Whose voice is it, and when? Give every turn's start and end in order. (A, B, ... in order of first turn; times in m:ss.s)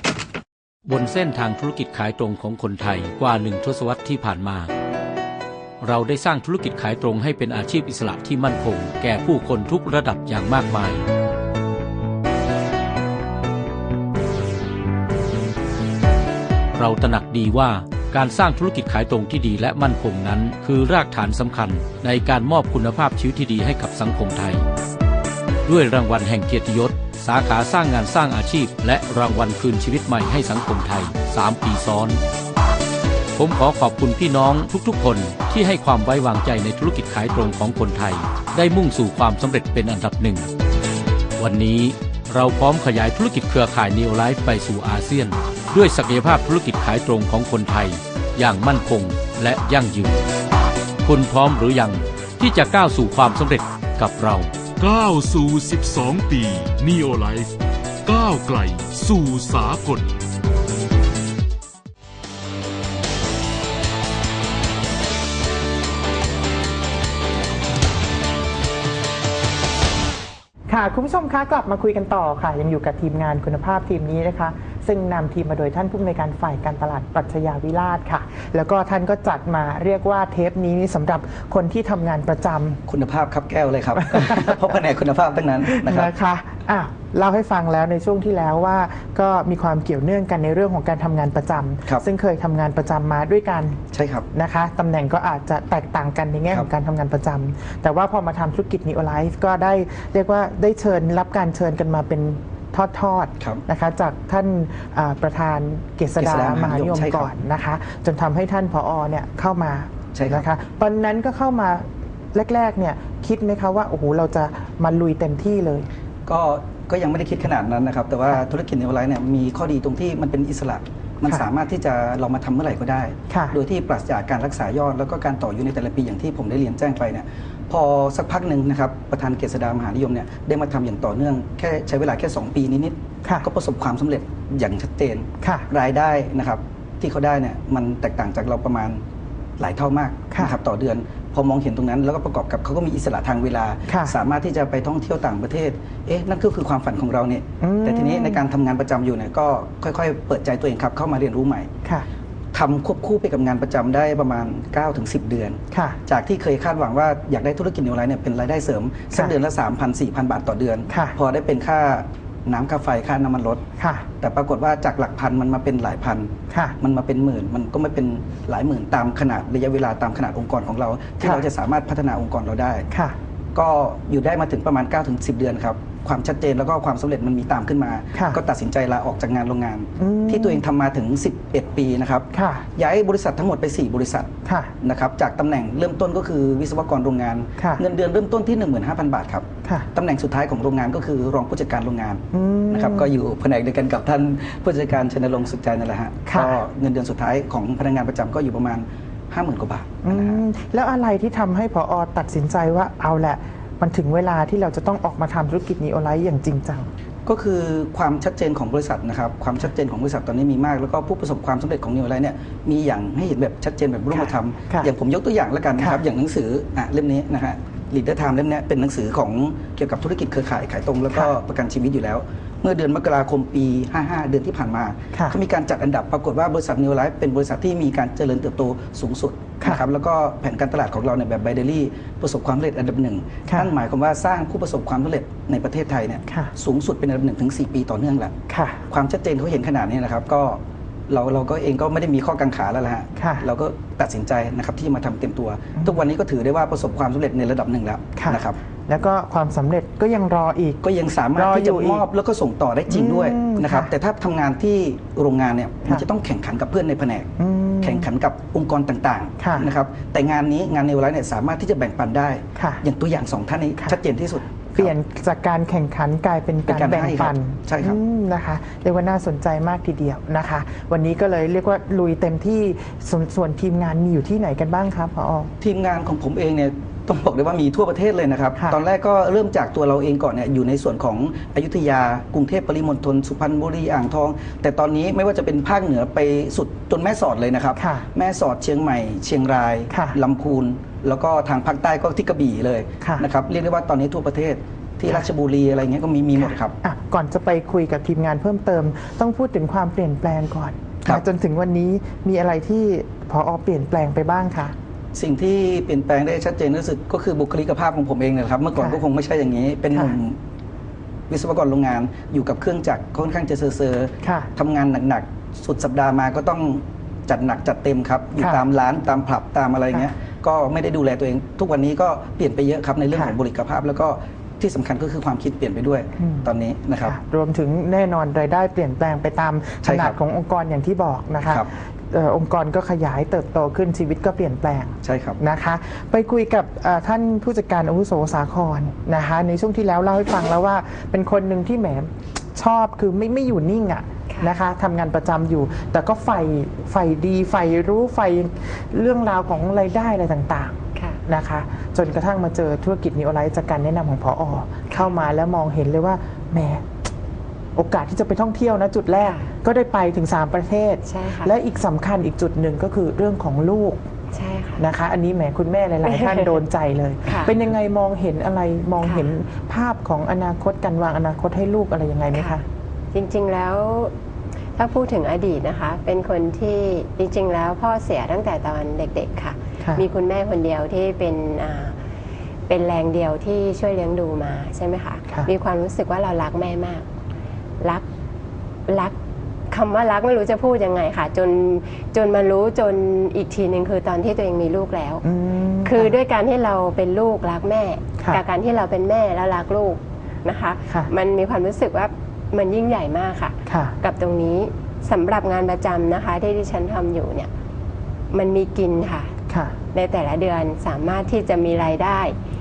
0:00.8-0:04.7 A
0:05.8-0:11.0 A
0:16.7-0:24.6 A
0:25.6-0:32.2 A
0:33.4-0:40.4 A
0:41.4-0:50.2 A
0:51.0-0:54.5 A
0:54.8-0:57.5 B
0:58.0-1:00.1 B
1:10.7-1:22.8 C
1:22.9-1:26.1 D
1:24.0-1:24.5 C
1:25.7-1:55.9 C
1:33.9-1:34.2 D
1:46.2-1:47.3 D
1:50.1-1:50.5 D
1:56.2-2:19.0 D
2:03.3-2:03.5 C
2:15.4-2:15.7 C
2:19.6-2:31.7 D
2:20.3-2:20.5 C
2:23.9-2:24.2 C
2:27.6-2:28.4 C
2:32.5-2:43.6 D
2:35.7-2:36.0 C
2:40.9-2:41.2 C
2:43.8-2:44.1 C
2:44.2-2:52.9 D
2:46.5-2:46.8 C
2:52.9-2:53.2 C
2:53.5-3:20.4 D
2:58.1-2:58.4 C
3:00.0-3:00.6 C
3:02.3-3:02.6 C
3:04.4-3:04.7 C
3:07.6-3:07.8 C
3:12.3-3:13.1 C
3:16.2-3:16.6 C
3:20.0-3:26.9 C
3:27.2-3:58.4 D
3:34.1-3:34.9 C
3:58.5-3:58.8 C
3:58.9-4:08.6 D
4:03.2-4:03.4 C
4:05.8-4:06.0 C
4:08.1-4:10.8 C
4:10.8-4:17.3 D
4:11.3-4:12.0 C
4:12.9-4:13.9 C
4:17.4-4:18.0 C
4:17.8-4:24.9 D
4:19.4-4:19.7 C
4:22.6-4:22.8 C
4:24.6-4:35.5 C
4:26.7-4:28.0 D
4:35.6-4:56.7 D
4:47.8-4:48.1 C
4:49.9-4:50.2 C
4:53.0-4:53.3 C
4:56.4-5:04.7 C
5:05.1-5:10.4 D
5:11.3-5:27.2 D
5:14.2-5:14.5 C
5:18.4-5:18.6 C
5:26.2-5:26.5 C
5:27.0-5:56.8 C
5:29.8-5:30.2 D
5:35.0-5:35.4 D
5:44.3-5:44.5 E
5:50.9-5:51.2 E
5:54.9-5:55.1 E
5:57.8-6:04.0 C
5:59.2-5:59.5 E
6:01.0-6:01.5 E
6:04.3-6:04.8 E
6:04.8-6:12.6 C
6:06.0-6:06.6 E
6:07.2-6:07.5 E
6:09.0-6:09.3 E
6:12.3-6:12.6 E
6:13.1-6:14.1 E
6:14.7-6:22.0 E
6:22.7-6:27.0 E
6:28.9-6:29.1 E
6:29.7-6:35.2 E
6:35.2-6:36.1 C
6:35.8-6:47.5 E
6:43.7-6:43.9 C
6:48.3-6:49.3 E
6:49.5-6:49.7 C
6:49.9-6:52.4 E